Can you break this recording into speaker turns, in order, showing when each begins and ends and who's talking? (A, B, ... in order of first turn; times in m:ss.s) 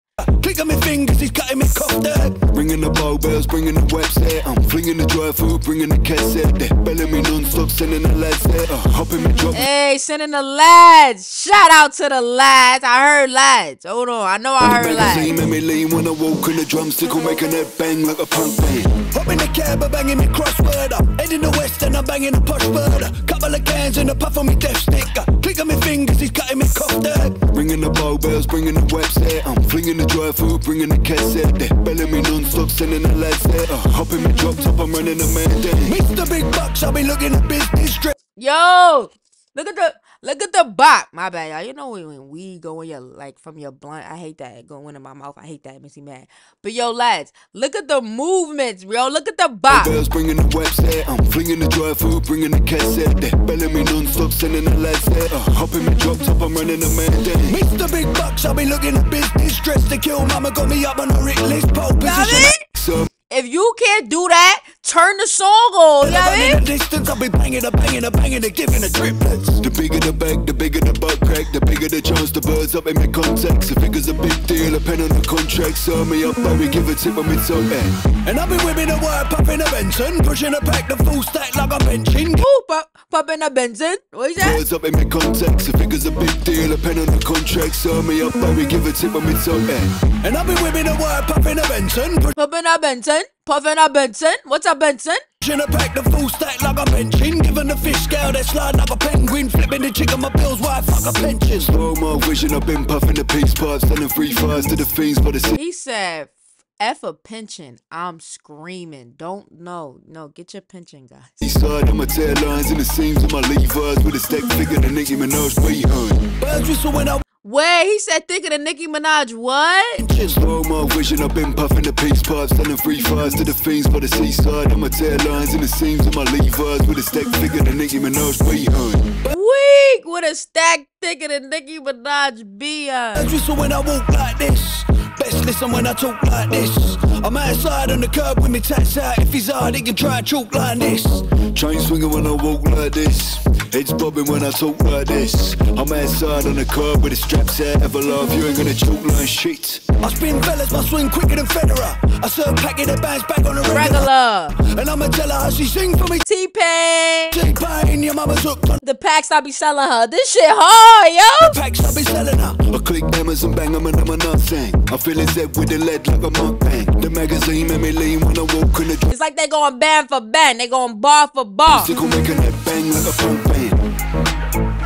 0:00.4-0:02.4 A
0:02.5-0:09.6 B
0:09.5-0:15.3 C
0:14.6-0:19.1 B
0:19.1-0:27.4 A
0:27.5-0:36.0 B
0:35.8-0:38.1 A
0:38.4-0:50.0 C
0:49.7-0:57.6 B
0:57.5-1:02.6 A
1:02.0-1:02.6 C
1:02.7-1:03.1 B
1:03.3-1:06.6 C
1:06.0-1:09.6 A
1:09.6-1:18.0 B
1:18.2-1:22.4 A
1:22.4-1:24.6 C
1:24.4-1:30.0 B
1:30.2-1:32.4 A
1:32.4-1:35.2 C
1:35.4-1:41.7 A
1:41.6-1:45.6 B
1:45.6-1:51.3 C
1:51.4-1:56.4 B
1:56.4-1:57.2 A
1:57.4-2:00.1 C
2:00.0-2:00.4 A
2:00.2-2:09.2 B
2:09.3-2:13.3 C
2:13.2-2:21.4 A
2:21.5-2:29.8 B
2:30.0-2:36.2 A
2:33.7-2:34.6 C
2:36.3-2:37.4 C
2:37.3-2:38.8 A
2:38.8-2:41.6 C
2:41.4-2:42.7 A
2:42.6-2:49.1 B
2:49.1-2:51.9 C
2:51.7-2:53.8 B